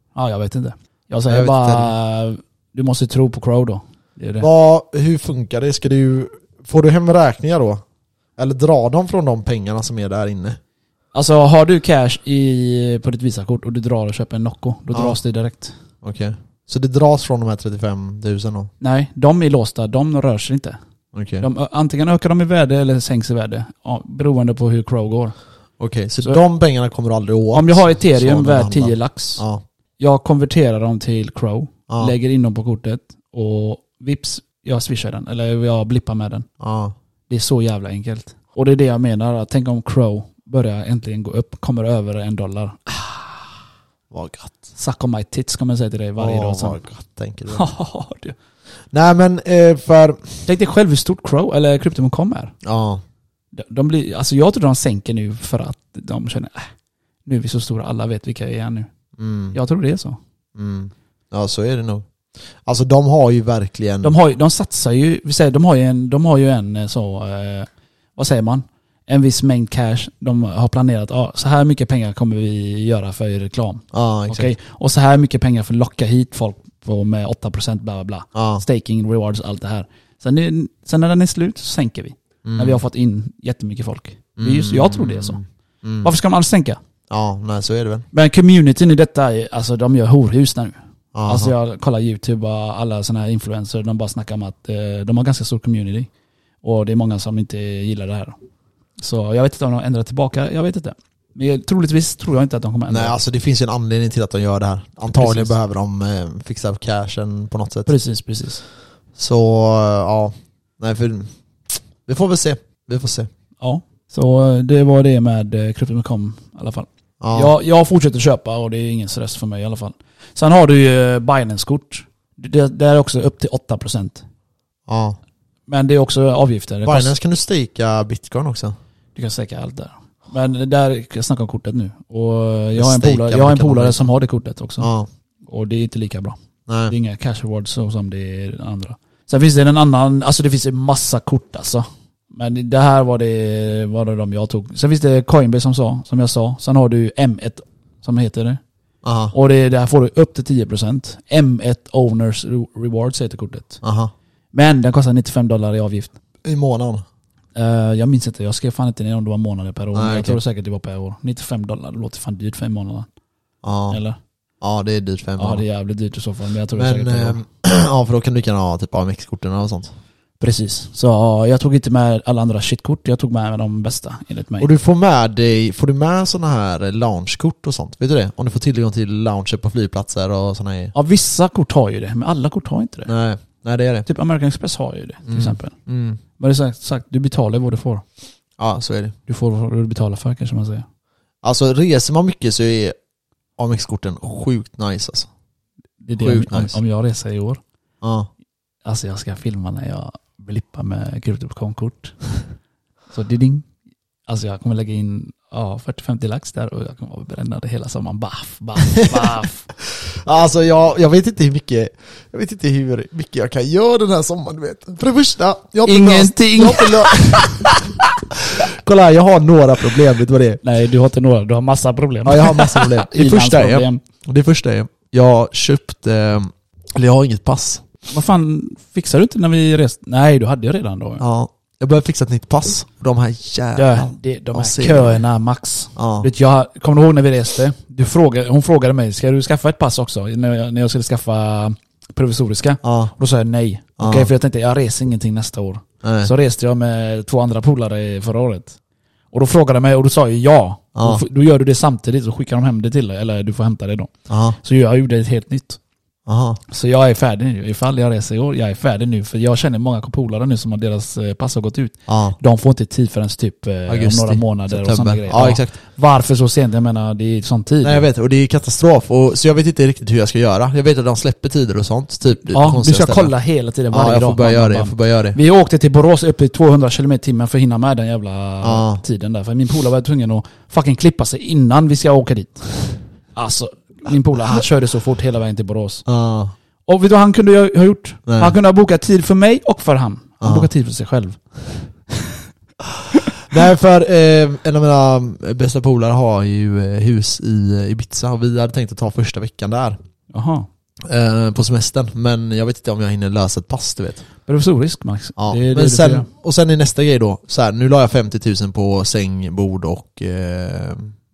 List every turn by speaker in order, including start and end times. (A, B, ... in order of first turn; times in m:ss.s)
0:00.1-0:04.5 A
0:01.3-0:01.9 B
0:04.4-0:07.8 B
0:08.4-0:10.6 B
0:11.1-0:15.7 A
0:14.9-0:15.2 B
0:16.0-0:18.7 B
0:18.8-0:20.8 A
0:21.1-0:21.4 B
0:21.4-0:25.3 A
0:25.8-0:29.6 B
0:27.5-0:29.4 A
0:30.0-0:36.5 A
0:31.9-0:32.1 B
0:36.6-0:36.9 B
0:37.3-0:43.4 A
0:44.1-0:44.7 B
0:44.7-0:46.8 A
0:46.2-0:47.6 B
0:47.5-0:48.4 A
0:48.9-0:50.4 B
0:50.4-0:52.5 A
0:52.6-0:53.0 B
0:53.5-0:56.7 A
0:57.2-0:58.9 A
0:59.2-0:59.6 B
0:59.5-1:00.2 A
1:00.6-1:02.0 B
1:02.6-1:04.1 B
1:04.0-1:25.4 A
1:13.9-1:14.5 B
1:18.3-1:18.6 B
1:22.4-1:22.8 B
1:24.4-1:26.1 B
1:26.0-1:26.8 A
1:27.1-1:28.0 B
1:28.1-1:30.7 A
1:31.1-1:31.5 B
1:31.3-1:36.1 A
1:36.6-1:38.4 A
1:39.0-1:43.2 A
1:42.9-1:47.9 B
1:45.1-1:45.5 A
1:47.8-1:48.6 A
1:49.2-1:51.3 B
1:52.0-1:53.3 B
1:53.6-2:04.2 A
1:57.2-1:57.5 B
2:04.9-2:05.2 B
2:05.7-2:07.1 A
2:06.8-2:08.8 B
2:09.1-2:14.9 A
2:12.8-2:14.1 B
2:14.8-2:15.1 B
2:15.5-2:16.4 A
2:16.7-2:16.9 B
2:16.9-2:28.6 A
2:29.0-2:29.3 B
2:29.3-2:33.8 A
2:33.8-2:34.1 B
2:34.5-2:36.1 A
2:36.4-2:37.0 B
2:37.5-2:43.1 A
2:39.9-2:40.4 B
2:43.6-2:44.0 B
2:43.9-2:44.2 A
2:44.6-2:45.6 B
2:45.4-2:47.4 A
2:46.7-2:49.9 B
2:50.4-2:54.7 A
2:54.6-3:00.9 B
3:00.9-3:03.1 A
3:03.0-3:04.1 B
3:04.0-3:05.7 A
3:05.3-3:06.2 B
3:06.4-3:08.0 A
3:08.6-3:09.2 B
3:09.3-3:10.8 A
3:11.4-3:12.9 B
3:13.6-3:15.3 B
3:16.0-3:17.6 A
3:16.2-3:16.8 B
3:18.0-3:18.3 B
3:18.8-3:22.3 A
3:23.1-3:23.7 A
3:24.3-3:29.7 A
3:28.8-3:37.8 B
3:35.8-3:37.8 A
3:38.3-3:40.6 B
3:40.6-3:44.0 A
3:42.2-3:47.8 B
3:48.1-3:51.2 A
3:51.2-3:55.2 B
3:53.8-4:08.8 A
3:56.0-3:56.3 B
4:02.8-4:03.1 B
4:04.0-4:04.3 B
4:06.0-4:06.3 B
4:09.3-4:15.8 A
4:10.9-4:11.2 B
4:14.3-4:14.6 B
4:16.3-4:16.6 B
4:16.7-4:28.0 A
4:22.1-4:22.4 B
4:23.9-4:25.7 B
4:27.8-4:33.3 B
4:32.5-4:46.0 A
4:33.9-4:35.4 B
4:38.6-4:39.0 B
4:46.0-4:46.5 B
4:46.9-4:52.4 A
4:48.2-4:48.5 B
4:50.4-4:50.7 B
4:53.5-5:00.0 B
5:00.3-5:00.7 A
5:01.1-5:04.2 B
5:04.4-5:06.3 A
5:05.4-5:11.1 B